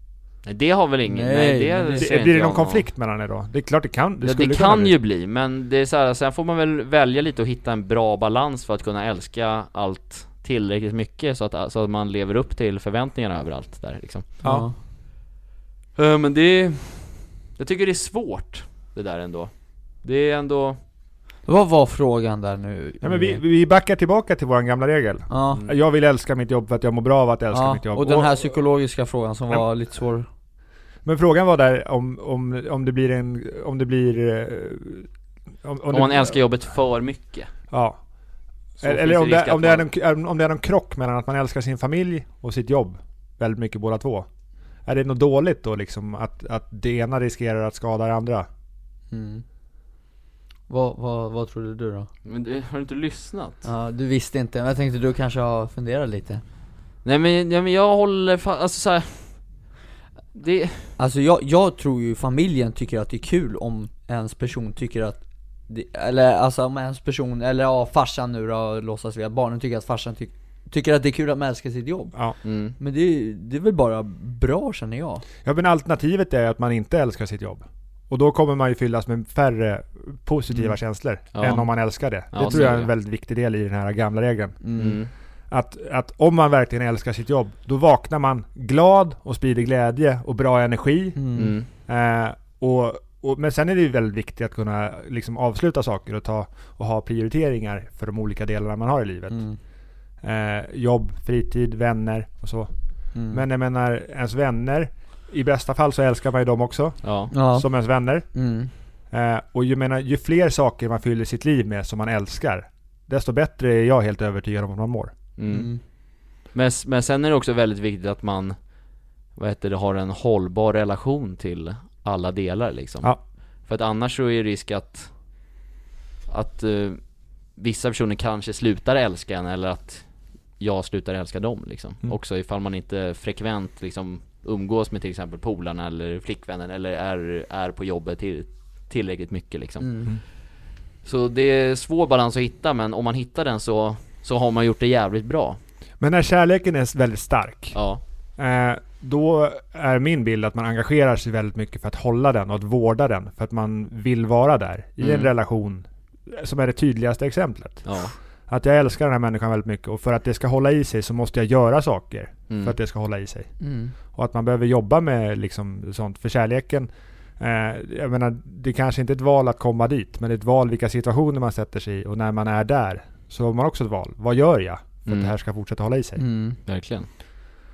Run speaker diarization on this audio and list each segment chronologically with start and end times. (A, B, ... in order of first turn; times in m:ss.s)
0:00.4-0:02.8 A
0:01.1-0:02.1 B
0:02.0-0:04.9 C
0:04.2-0:14.4 A
0:14.4-0:14.7 C
0:14.4-0:14.7 B
0:16.0-0:19.5 A
0:20.0-0:20.8 A
0:21.4-0:23.4 B
0:23.0-0:28.3 C
0:25.3-0:25.6 B
0:27.5-0:30.3 B
0:31.0-0:35.1 C
0:35.6-0:36.4 C
0:35.9-0:37.5 A
0:37.7-0:38.0 C
0:38.8-0:39.9 A
0:38.8-0:44.2 C
0:44.8-0:48.5 C
0:49.1-0:49.4 B
0:50.7-0:52.1 B
0:52.2-0:53.7 A
0:53.6-0:56.4 B
0:57.0-0:59.4 A
1:00.3-1:00.9 A
1:01.0-1:12.2 B
1:12.4-1:12.8 A
1:12.8-1:15.2 B
1:15.4-1:24.6 C
1:21.3-1:22.9 A
1:24.6-1:25.0 B
1:24.8-1:25.1 A
1:25.5-1:39.4 C
1:31.2-1:31.5 B
1:31.4-1:31.7 A
1:39.3-1:39.6 B
1:40.2-1:42.7 C
1:43.1-1:43.4 B
1:43.3-1:48.3 C
1:47.0-1:47.3 A
1:47.3-1:47.7 B
1:48.3-1:48.7 B
1:49.1-1:55.1 C
1:55.4-1:55.8 A
1:55.5-1:55.8 B
1:56.5-1:58.6 A
1:59.4-2:05.1 A
2:06.3-2:07.0 A
2:07.5-2:20.1 A
2:19.8-2:20.1 B
2:21.0-2:25.6 A
2:26.0-2:27.8 C
2:27.7-2:28.0 A
2:28.4-2:43.5 C
2:35.0-2:35.3 A
2:37.8-2:38.1 A
2:42.5-2:42.7 A
2:43.6-2:43.9 B
2:44.1-2:46.9 C
2:47.4-2:56.2 C
2:55.1-2:55.3 A
2:56.2-2:56.6 B
2:56.6-2:57.1 A